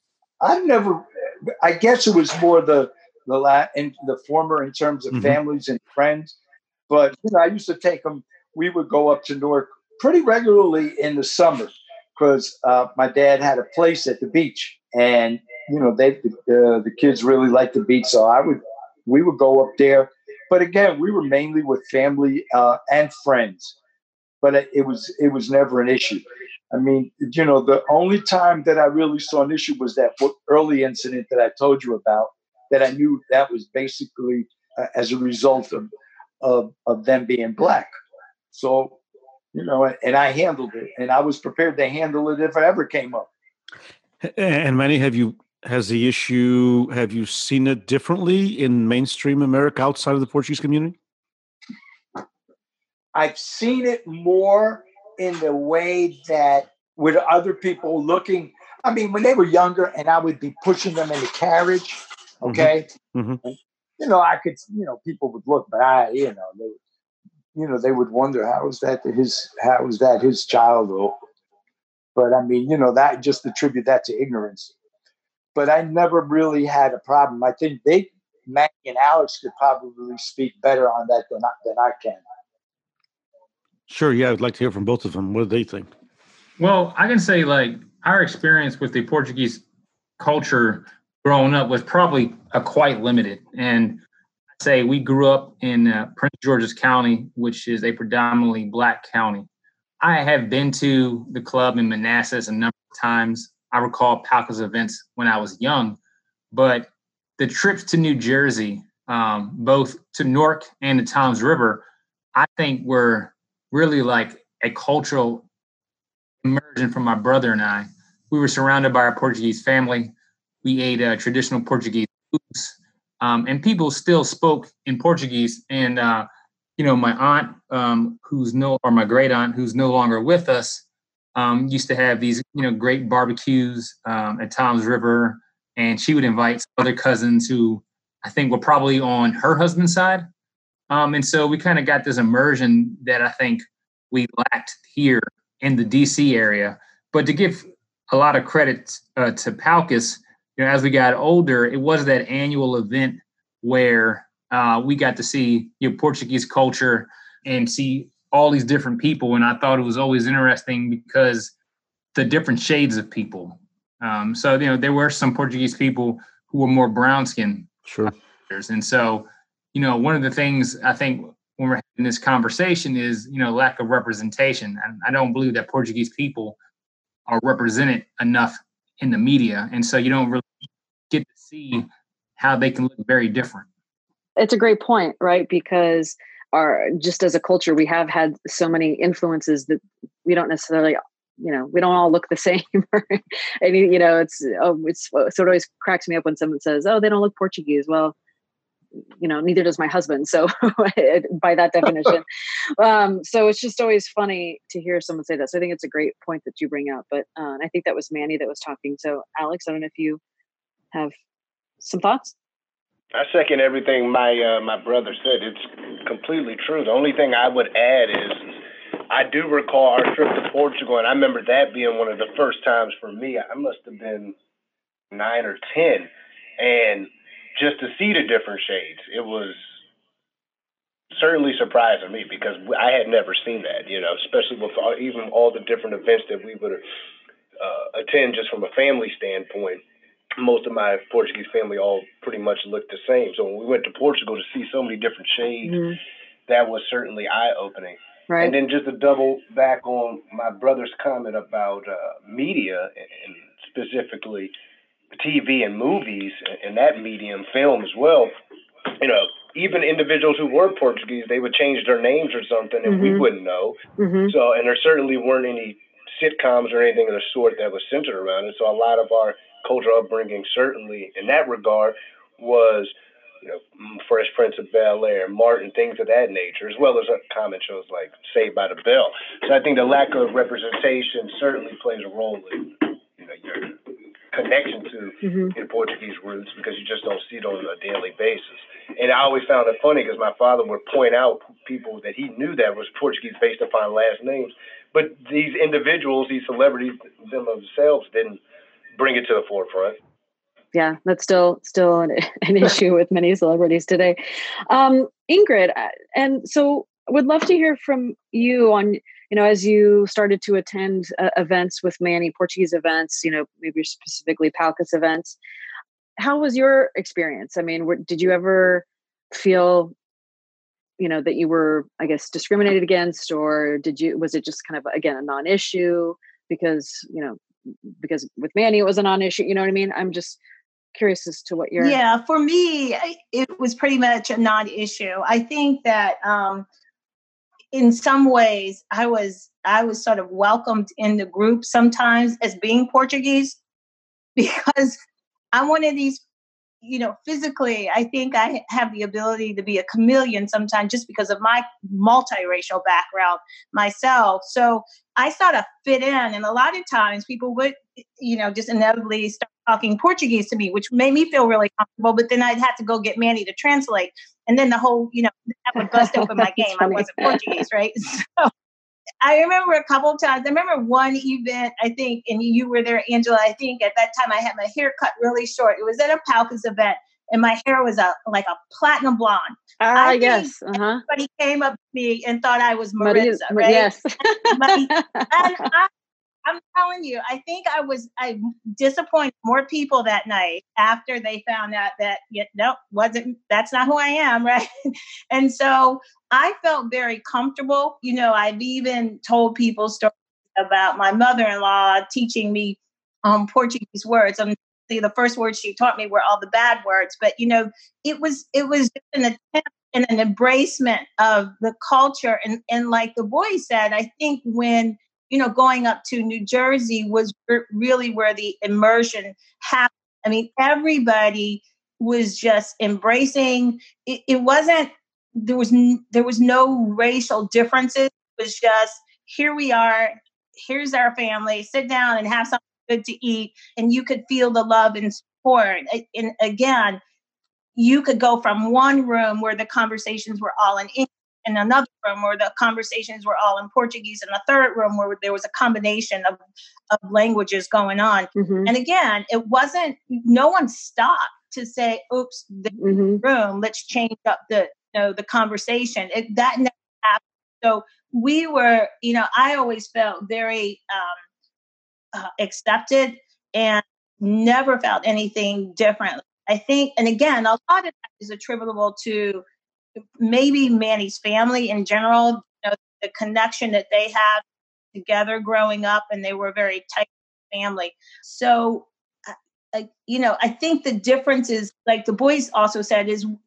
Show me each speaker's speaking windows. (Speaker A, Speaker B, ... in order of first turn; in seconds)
Speaker A: 0.4-6.3, 6.9-23.7, 24.4-35.9, 36.4-37.9, 38.5-39.0, 39.5-43.3, 53.1-62.9, 63.4-66.8, 67.5-71.2, 72.1-74.7, 75.5-82.2
Speaker B: 5.1-5.4, 44.2-50.9, 62.4-63.4, 83.9-85.9, 167.8-168.1
Speaker C: 86.6-89.6, 90.2-94.0, 94.6-99.5, 100.0-106.0, 106.5-115.4, 116.4-120.1, 120.6-130.8, 131.3-140.3, 140.9-161.5, 162.1-176.6, 177.3-180.4, 181.1-183.7
Speaker D: 184.4-198.1, 199.2-202.2, 202.8-210.2, 211.8-212.3, 245.6-246.0, 248.3-248.5, 262.9-263.3, 264.0-264.3, 285.2-285.5, 300.7-315.3, 316.2-319.9, 321.0-330.4, 330.9-332.0, 365.9-367.6, 379.8-381.0, 383.0-385.7, 448.4-448.7, 452.7-453.2
Speaker E: 213.1-218.6, 219.1-224.3, 225.1-229.6, 231.1-236.8, 237.6-239.8, 240.4-245.8, 246.5-254.5, 255.1-258.3, 259.0-283.7, 284.3-298.4, 298.9-300.0
Speaker F: 331.8-336.6, 337.7-343.6, 344.4-345.0, 345.5-346.2, 346.8-368.5, 369.2-383.9, 384.5-385.9, 386.4-437.0, 437.8-446.4, 446.9-461.2, 462.1-469.4, 470.2-474.4, 474.9-483.3